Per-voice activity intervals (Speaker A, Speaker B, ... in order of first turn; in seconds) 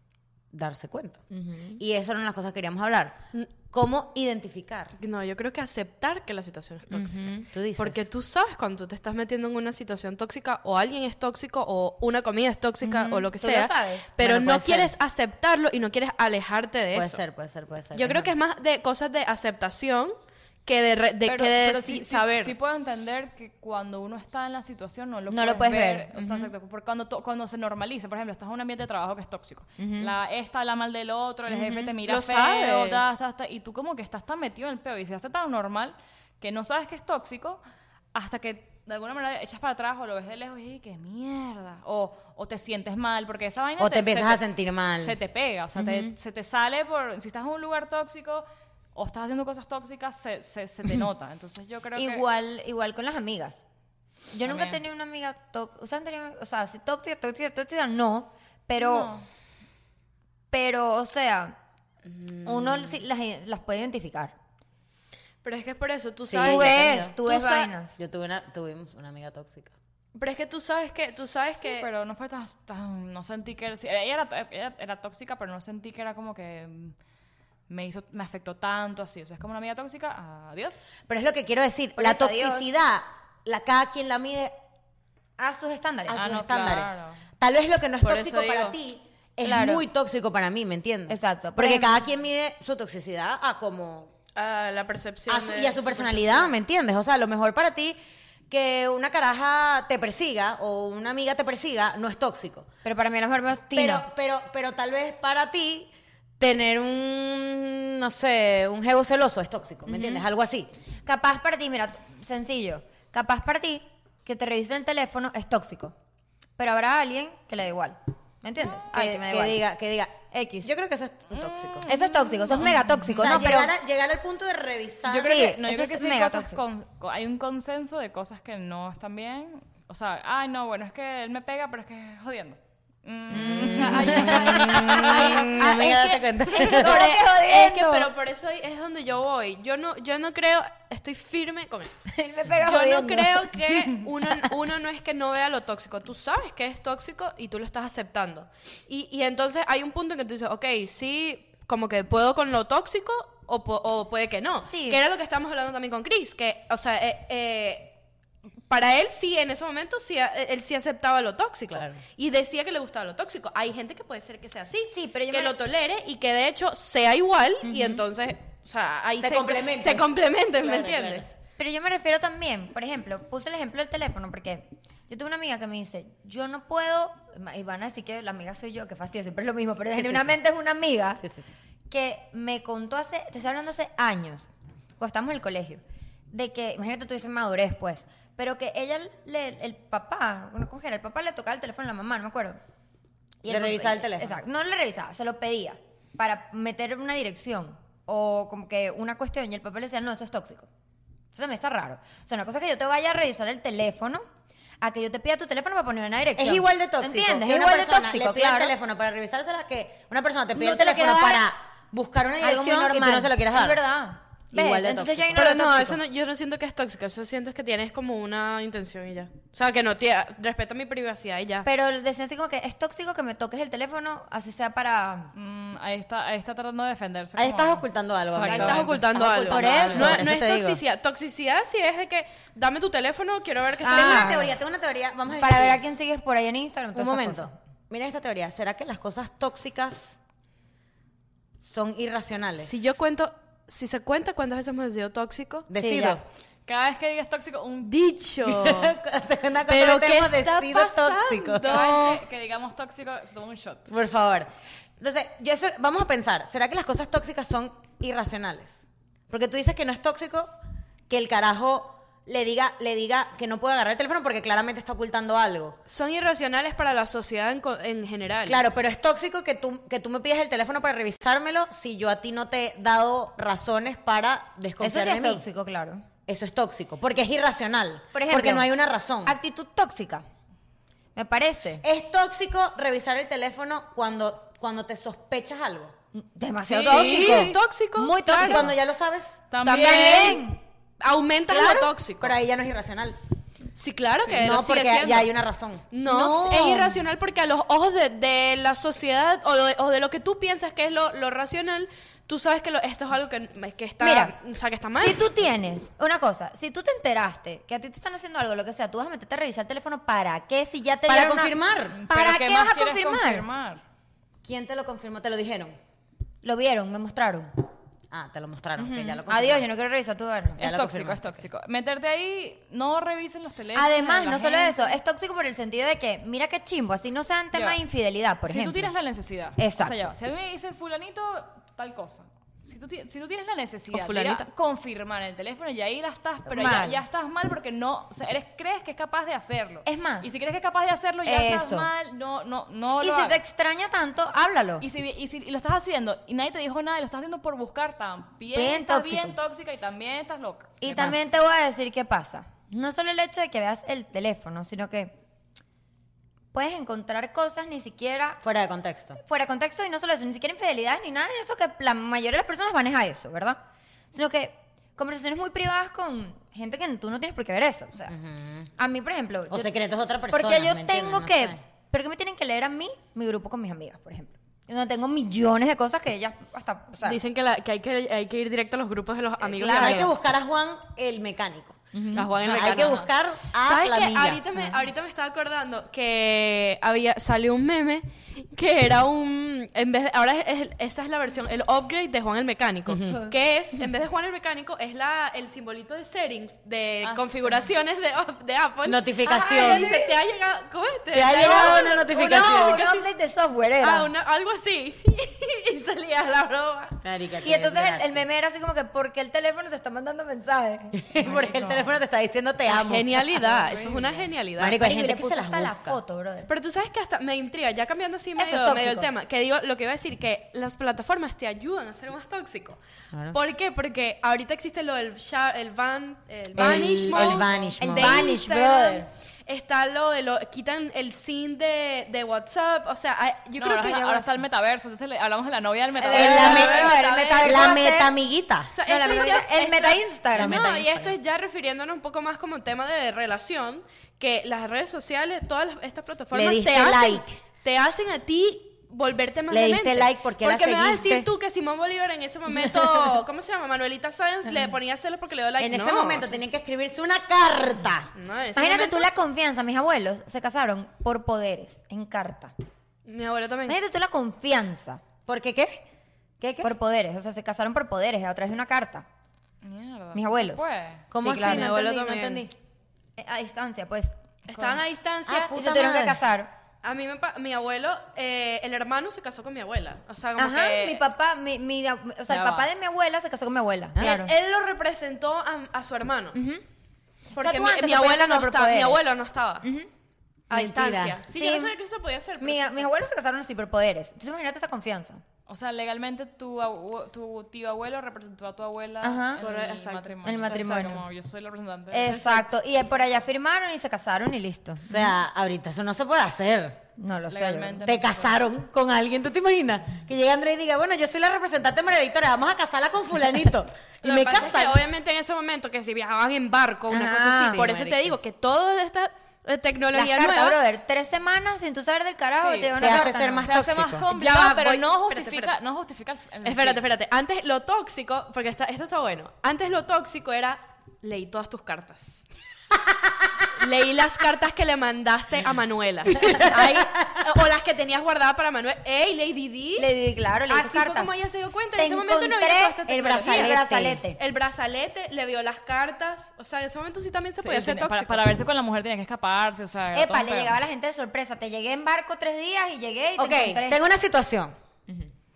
Speaker A: 0.5-1.2, 1.8-4.9, 7.5-8.1, 14.2-14.9, 16.9-18.3, 43.8-45.1, 62.1-62.9, 66.2-67.1, 68.0-69.7, 81.1-84.5, 86.1-94.1, 95.3-98.0, 98.5-102.7, 103.7-110.7, 118.9-121.8, 123.2-125.4, 133.3-137.1, 161.7-162.0, 169.2-170.1, 170.6-171.3, 193.5-194.3, 206.4-213.8, 214.5-215.5, 227.3-230.8, 233.9-235.8, 236.9-240.2, 241.6-242.7, 245.7-246.2, 248.4-252.2, 253.9-260.5, 261.1-265.8, 268.4-275.4, 276.3-279.4, 281.8-285.9, 288.4-289.4, 292.2-293.2, 294.3-296.9, 311.1-312.0, 314.4-315.8, 318.1-319.7, 320.6-321.4, 358.4-359.2, 368.1-368.7, 369.5-371.6, 379.6-381.8, 382.4-384.4, 392.9-393.3, 398.8-400.0, 401.1-402.9, 407.0-408.2, 410.9-413.4, 414.6-416.0, 426.5-428.4, 436.1-438.7, 440.4-440.7, 446.3-447.3, 449.5-451.3, 455.6-458.1, 465.3-465.8, 466.4-466.7, 471.1-472.5, 475.2-476.2, 490.5-491.2, 504.8-506.8, 507.8-514.8, 517.4-518.1, 522.8-524.1, 532.9-533.4, 536.2-536.8, 542.9-544.0, 553.2-554.5
Speaker B: 1.3-1.8, 6.9-7.4, 12.8-14.2, 25.3-26.5, 29.8-30.1, 31.5-31.9, 45.8-46.1, 51.9-53.6, 54.3-59.1, 60.5-61.5, 62.4-64.3, 66.3-67.9, 82.0-82.7, 85.4-86.3, 89.4-89.8, 91.1-92.0, 102.8-104.1, 109.9-110.2, 111.0-115.9, 116.6-119.6, 120.3-120.7, 121.9-123.7, 125.2-126.6, 133.3-135.8, 136.4-138.1, 142.1-143.9, 154.7-155.0, 164.9-165.6, 167.6-168.0, 171.6-181.2, 181.9-192.6, 193.4-200.7, 201.3-204.2, 204.8-208.7, 210.5-211.4, 212.4-216.0, 221.6-225.3, 229.1-230.3, 233.8-234.5, 235.3-237.5, 245.8-246.2, 274.8-276.0, 278.1-278.7, 279.2-280.2, 281.1-281.8, 286.1-288.7, 289.7-290.6, 291.5-291.9, 296.2-296.9, 304.0-304.3, 305.0-313.4, 316.4-317.7, 318.8-320.6, 323.7-328.9, 329.6-330.1, 336.4-337.0, 339.8-340.3, 341.2-341.9, 343.0-344.8, 348.5-349.4, 350.8-355.1, 356.5-358.4, 359.2-363.6, 364.1-368.1, 368.8-369.7, 370.3-377.2, 379.4-380.1, 381.9-382.3, 399.2-400.1, 401.4-404.1, 407.4-411.0, 414.7-416.5, 418.4-419.1, 426.6-429.1, 433.8-434.3, 436.0-438.1, 438.8-441.1, 458.6-462.5, 463.7-465.0, 466.6-469.1, 470.1-470.6, 471.2-471.7, 473.2-474.2, 475.5-476.5, 480.4-484.3, 486.3-486.6, 487.3-489.0, 489.6-489.9, 491.3-491.8, 492.4-495.2, 499.0-499.4, 500.2-501.0, 501.9-505.1, 507.0-507.8, 516.9-517.6, 519.9-523.5, 539.8-541.1, 541.8-544.2, 549.9-553.8
Speaker C: 5.0-17.2, 17.9-20.1, 20.6-22.5, 32.0-33.0, 65.4-67.7, 70.1-71.9, 88.0-88.7, 94.3-96.5, 133.8-142.1, 142.6-157.9, 158.7-171.2, 215.3-221.7, 228.4-234.5, 242.6-245.7, 247.8-248.9, 249.7-252.1, 265.9-268.6, 286.7-288.7, 289.6-292.3, 293.7-295.3, 295.9-305.2, 333.9-334.4, 377.0-380.1, 382.1-383.1, 383.6-403.0, 403.8-407.0, 412.7-414.8, 416.5-422.8, 423.3-434.2, 436.1-437.9, 438.7-456.3, 458.1-459.1, 463.1-463.8, 471.3-472.5, 474.5-475.5, 476.8-481.0, 484.0-486.4, 487.4-489.6, 490.5-492.9, 499.4-500.4, 514.0-520.6, 524.1-525.5, 526.4-532.2, 533.5-539.9, 540.5-543.6, 544.2-548.2
Speaker D: 21.2-37.6, 38.1-52.2, 54.4-54.8, 58.8-59.2, 71.4-76.9, 77.7-80.9, 86.1-87.2, 121.3-123.3, 125.1-134.9, 225.3-229.0, 246.7-247.9, 251.5-253.9, 286.8-287.6, 289.5-290.4, 311.9-313.8, 320.6-325.0, 327.5-327.8, 328.5-343.4, 344.8-351.2, 397.0-397.7, 411.2-411.9, 413.4-414.3, 433.6-436.7, 469.6-471.0, 474.5-474.8, 482.3-482.7, 495.5-502.5, 507.3-508.4, 522.4-526.8, 547.4-550.6